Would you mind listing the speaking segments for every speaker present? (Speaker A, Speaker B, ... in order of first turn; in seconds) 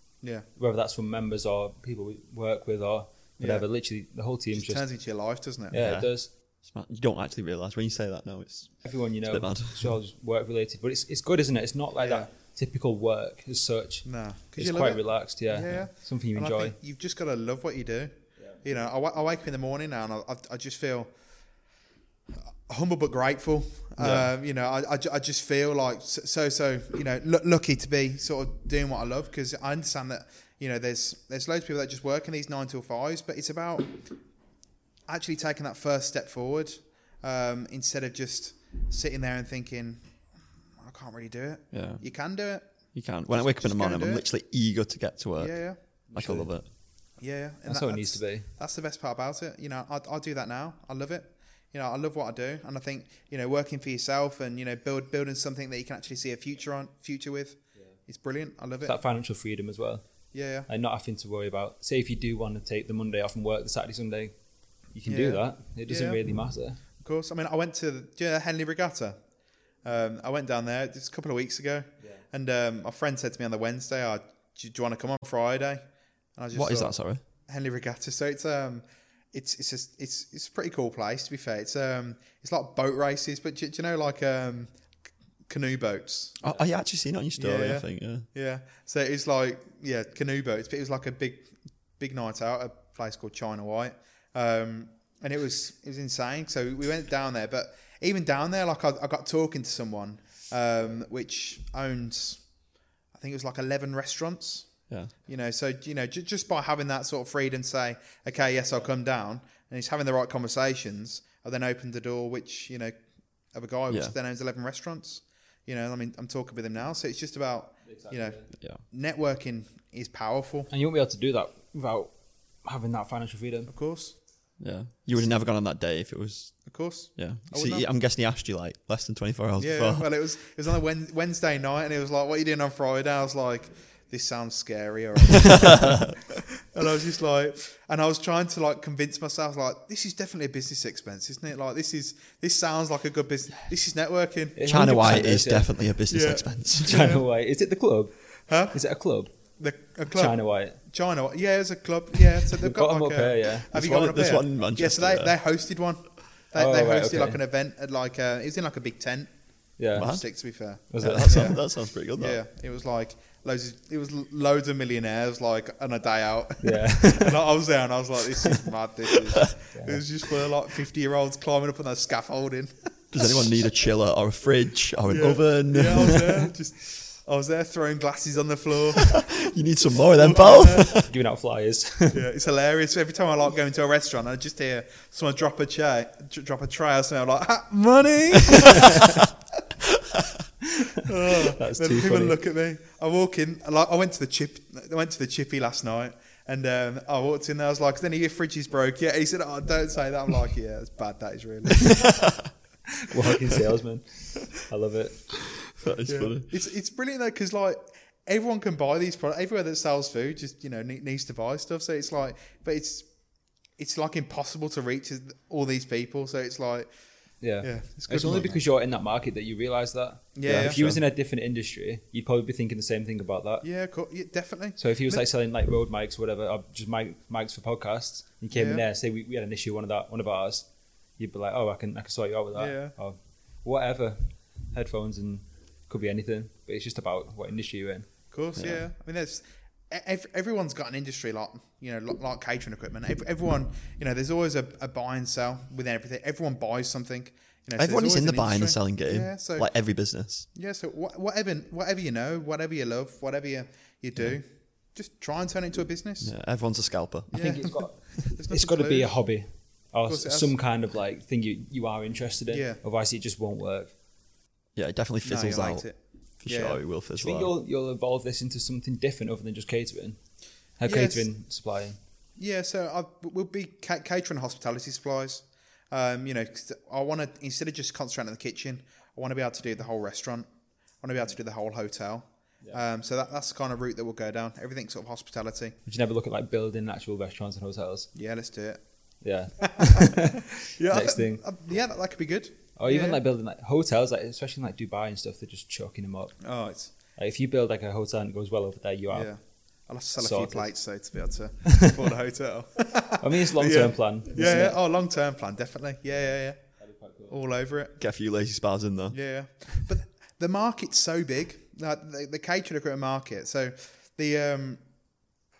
Speaker A: 0.5-4.9, 5.7-6.3, 8.8-16.8, 46.1-46.5, 47.7-48.5, 58.8-60.0, 60.7-64.3, 64.9-66.8, 117.8-118.5, 120.7-122.1, 122.6-123.7, 144.6-145.9, 146.8-149.3, 150.1-150.8, 152.4-153.7, 156.5-157.4, 159.8-160.2, 160.9-161.5, 166.6-167.4, 169.7-170.0, 181.0-182.2, 191.3-192.4, 203.0-205.7, 217.4-223.7, 224.8-230.7, 231.2-238.1, 257.3-263.9, 267.2-270.2, 270.8-272.0, 285.9-288.1, 289.2-291.4, 292.8-300.9, 303.2-304.8, 306.8-307.4
Speaker B: 3.4-3.6, 4.5-5.8, 12.0-12.3, 14.0-21.1, 22.4-34.0, 35.1-40.0, 40.8-42.7, 43.3-44.2, 45.4-45.8, 47.2-59.0, 60.3-60.7, 65.1-66.2, 67.0-69.2, 69.8-75.8, 76.4-84.7, 85.5-86.4, 87.3-102.5, 103.1-112.9, 113.5-120.7, 123.7-124.2, 126.7-127.9, 129.6-144.6, 146.1-147.2, 148.5-148.8, 149.6-159.3, 159.9-173.4, 175.1-179.3, 180.1-181.0, 182.1-189.2, 191.0-202.1, 206.0-213.1, 213.7-216.9, 217.6-218.6, 220.3-220.8, 223.6-225.2, 228.5-228.8, 232.5-232.9, 238.3-249.7, 250.5-256.3, 257.3-259.2, 260.0-260.5, 262.5-262.8, 265.2-266.8, 270.8-271.3, 272.4-285.8, 288.1-288.8, 289.6-293.2, 296.4-296.9, 299.1-306.6, 307.3-307.9, 309.1-314.8
Speaker C: 5.7-10.0, 24.0-24.3, 41.7-42.0, 42.9-46.7, 76.5-77.2, 86.4-88.2, 124.6-130.1, 135.6-136.0, 144.6-147.1, 153.7-155.3, 159.9-160.2, 160.8-162.4, 173.1-176.2, 179.0-181.1, 202.1-202.5, 205.7-206.5, 220.4-221.0, 238.6-238.8, 247.8-250.4, 256.2-257.4, 264.8-265.9, 266.4-267.5, 308.0-309.2